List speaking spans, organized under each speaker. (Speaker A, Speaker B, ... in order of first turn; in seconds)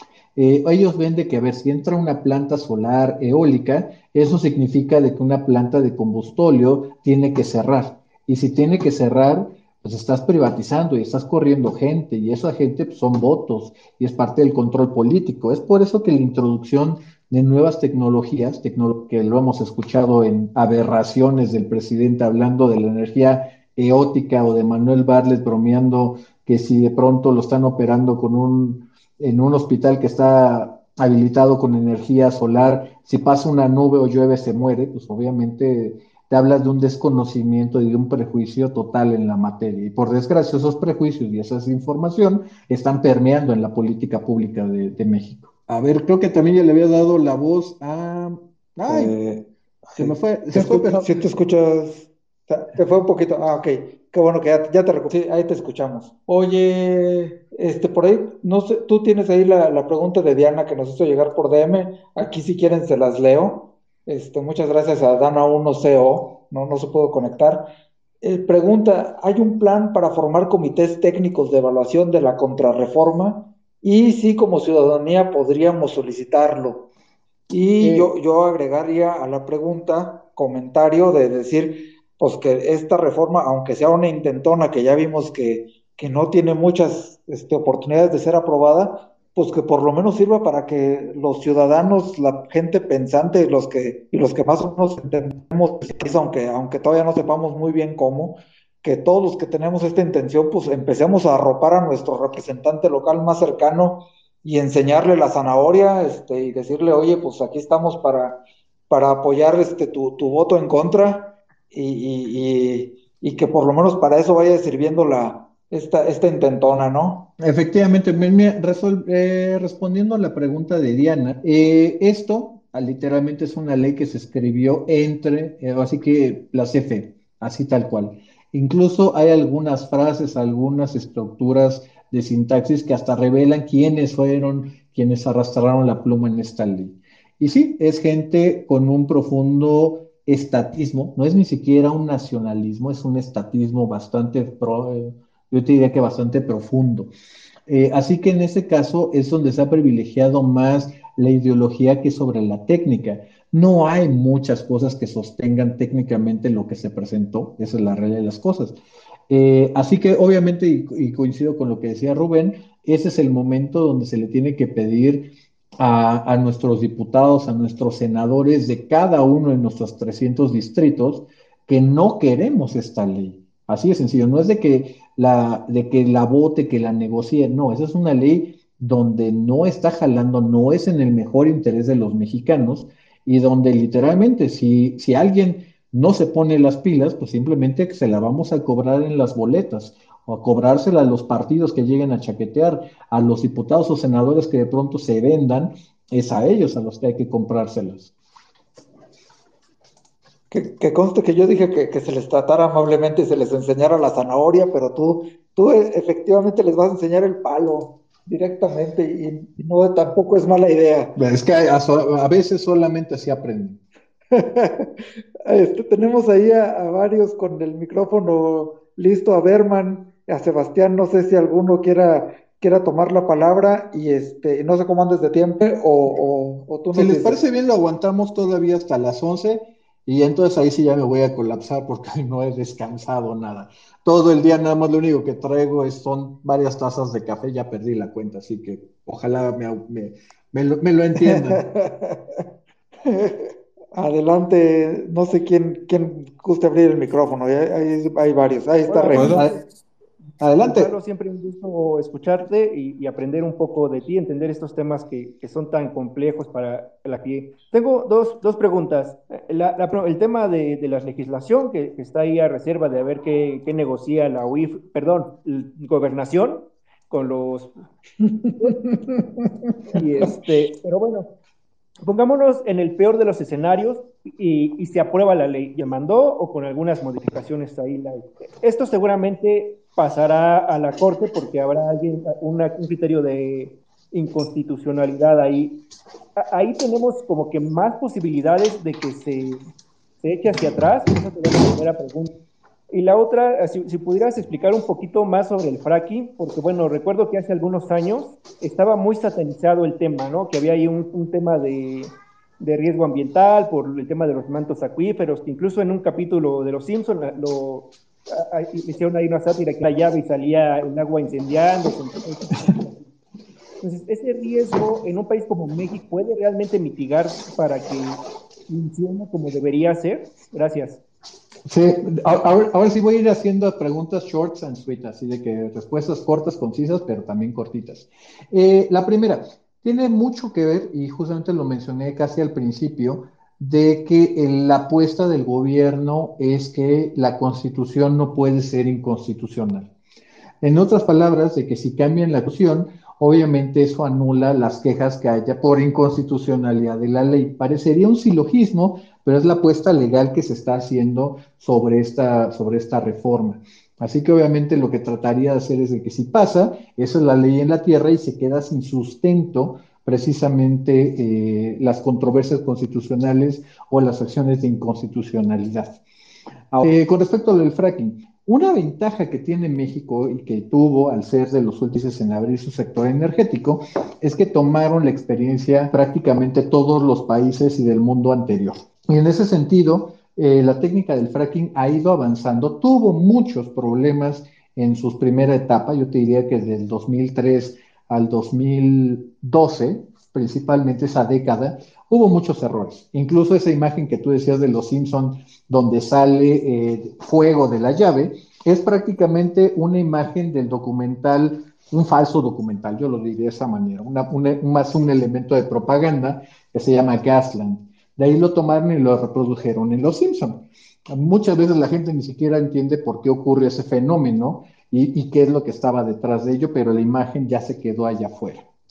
Speaker A: 0.3-49.1, 50.0-51.2, 77.8-78.1, 117.4-147.1, 147.7-158.7, 159.3-165.2, 165.8-198.1, 211.2-213.8, 226.9-241.6, 249.1-249.6, 250.4-250.9, 321.7-339.9, 340.6-366.0, 366.7-418.6
Speaker B: 48.9-49.4, 50.0-67.6, 68.2-76.8, 77.5-108.4, 108.9-117.2, 200.5-211.1, 214.3-214.8, 215.4-227.4, 241.2-242.2, 243.1-249.4
Speaker C: 248.9-249.6, 250.6-267.7, 268.6-268.9, 269.9-271.2, 272.0-285.7, 286.4-289.6, 290.2-292.3, 292.9-313.1, 313.8-321.0